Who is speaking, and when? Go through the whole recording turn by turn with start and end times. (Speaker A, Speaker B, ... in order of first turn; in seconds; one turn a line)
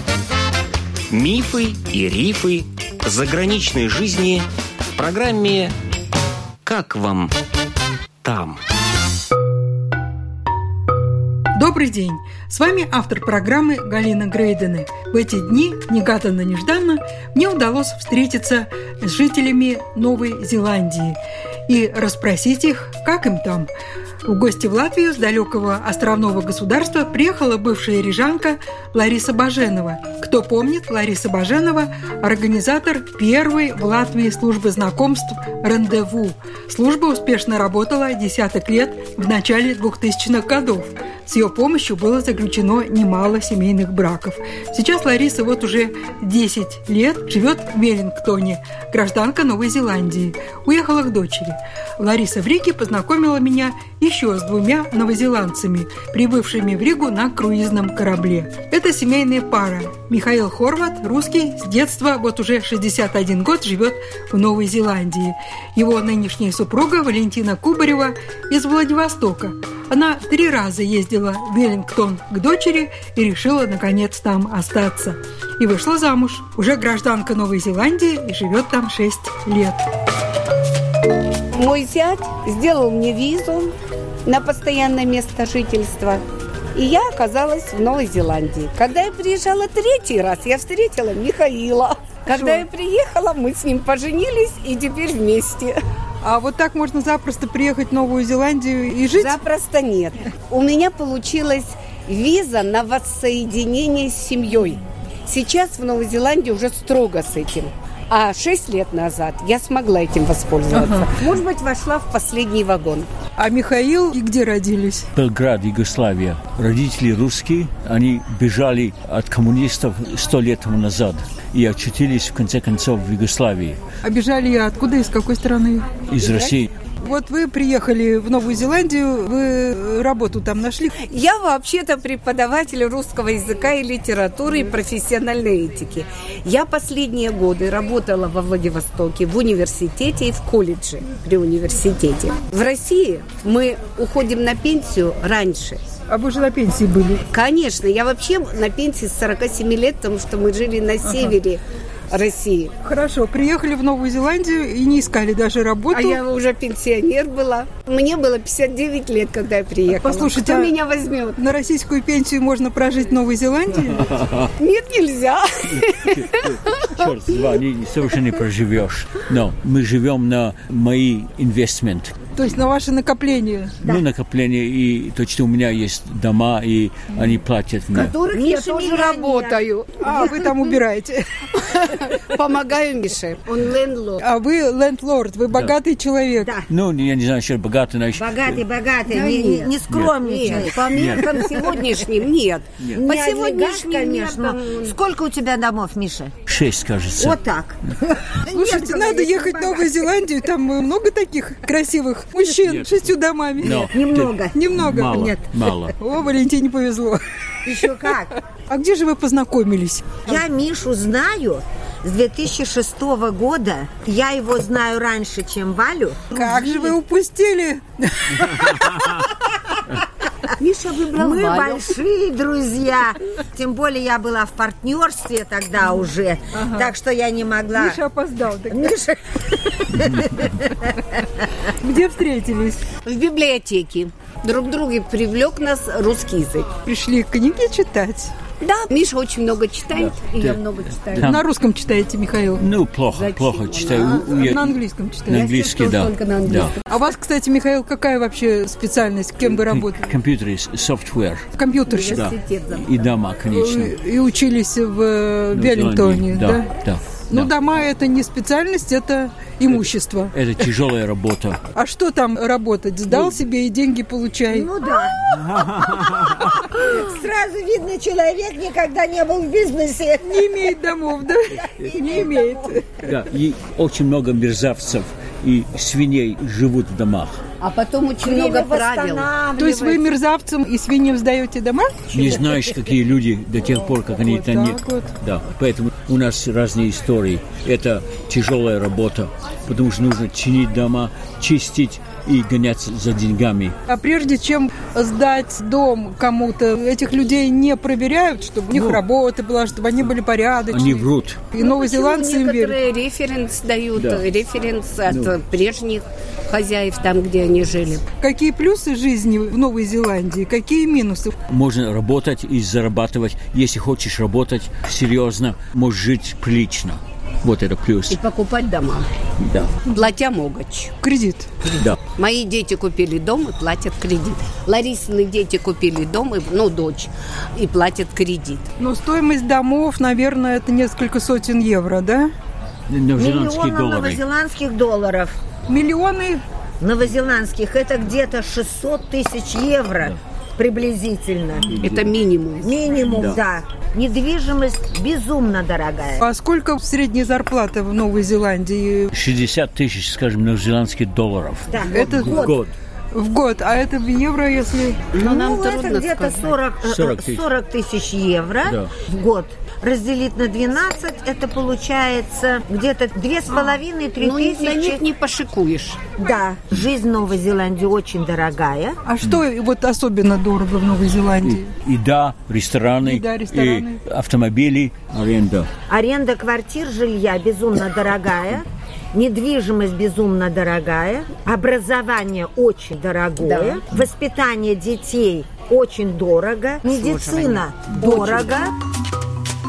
Speaker A: 1.1-5.8
Speaker A: 6.6-7.3
Speaker A: 8.2-8.6
Speaker B: 11.5-23.7
Speaker B: 24.2-79.8
Speaker C: 81.5-83.7
Speaker C: 84.2-86.2
Speaker C: 86.7-95.8
Speaker B: 92.3-92.7
Speaker B: 96.2-99.4
Speaker C: 99.1-113.1
Speaker B: 110.7-111.1
Speaker B: 113.4-115.1
Speaker D: 115.1-123.8
Speaker B: 124.0-125.9
Speaker D: 126.1-126.7
Speaker C: 126.2-126.6
Speaker B: 127.0-130.9
Speaker C: 131.0-145.8
Speaker B: 146.1-147.2
Speaker C: 147.3-152.7
Speaker B: 151.1-151.3
Speaker B: 152.8-156.2
Speaker C: 155.9-161.4
Speaker B: 159.9-160.7
Speaker B: 161.4-164.2
Speaker D: 164.0-164.5
Speaker C: 164.6-167.5
Speaker D: 165.7-172.1
Speaker B: 172.3-173.8
Speaker D: 173.8-178.1
Speaker E: 178.0-179.7
Speaker C: 178.1-180.6
Speaker B: 180.1-181.7
Speaker C: 181.7-184.2
Speaker B: 184.2-186.5
Speaker E: 186.4-186.7
Speaker D: 186.7-188.3
Speaker E: 188.1-191.9
Speaker C: 189.1-194.9
Speaker D: 189.9-191.3
Speaker E: 192.9-196.3
Speaker D: 196.5-197.4
Speaker E: 197.2-199.9
Speaker B: 198.5-203.9
Speaker D: 202.7-202.9
Speaker D: 203.6-205.9
Speaker E: 203.9-204.6
Speaker B: 204.5-205.3
Speaker B: 205.9-207.2
Speaker E: 207.6-208.3
Speaker B: 207.8-210.3
Speaker E: 210.2-216.7
Speaker B: 216.3-218.4
Speaker E: 218.6-219.3
Speaker C: 220.6-221.9
Speaker E: 221.1-228.0
Speaker B: 226.5-226.9
Speaker B: 227.7-228.9
Speaker E: 228.6-230.9
Speaker B: 231.6-232.8
Speaker C: 233.0-236.7
Speaker B: 236.8-238.3
Speaker C: 238.6-241.3
Speaker D: 239.9-241.4
Speaker B: 241.2-242.7
Speaker D: 242.6-246.7
Speaker C: 243.1-244.3
Speaker B: 243.9-245.4
Speaker C: 245.3-246.8
Speaker B: 246.9-250.0
Speaker D: 249.6-251.4
Speaker B: 251.6-252.3
Speaker C: 251.9-252.8
Speaker D: 252.1-253.9
Speaker B: 253.5-256.7
Speaker D: 255.5-257.5
Speaker B: 257.3-260.3
Speaker D: 260.3-261.6
Speaker B: 261.7-264.7
Speaker E: 264.4-270.7
Speaker D: 265.3-266.5
Speaker B: 270.2-273.1
Speaker E: 271.6-272.7
Speaker D: 273.0-277.4
Speaker C: 277.6-279.3
Speaker E: 278.2-280.1
Speaker B: 279.6-282.0
Speaker D: 282.1-293.7
Speaker B: 284.0-285.1
Speaker B: 293.9-302.8
Speaker D: 298.7-299.0
Speaker D: 300.7-301.6
Speaker C: 301.6-308.0
Speaker D: 303.9-304.2
Speaker D: 305.1-305.4
Speaker B: 308.2-311.3
Speaker D: 311.5-318.2
Speaker C: 318.1-319.1
Speaker D: 319.4-319.8
Speaker C: 319.8-320.9
Speaker B: 321.0-321.5
Speaker D: 321.7-322.0
Speaker C: 322.2-328.6
Speaker B: 328.8-332.3
Speaker D: 332.9-334.2
Speaker E: 333.2-335.4
Speaker B: 335.7-336.4
Speaker E: 336.8-341.8
Speaker D: 341.7-342.1
Speaker C: 341.8-342.7
Speaker E: 342.6-346.2
Speaker D: 343.1-343.4
Speaker B: 346.2-349.1
Speaker D: 349.1-352.7
Speaker E: 351.7-352.6
Speaker B: 351.8-352.5
Speaker B: 353.1-355.0
Speaker C: 355.1-356.5
Speaker E: 355.2-365.0
Speaker D: 356.8-357.4
Speaker D: 358.6-358.9
Speaker B: 363.5-363.8
Speaker C: 364.2-366.0
Speaker E: 366.2-369.0
Speaker B: 369.0-371.7
Speaker D: 371.4-375.7
Speaker B: 373.0-374.0
Speaker E: 375.9-388.7
Speaker C: 383.4-383.8
Speaker C: 386.9-388.7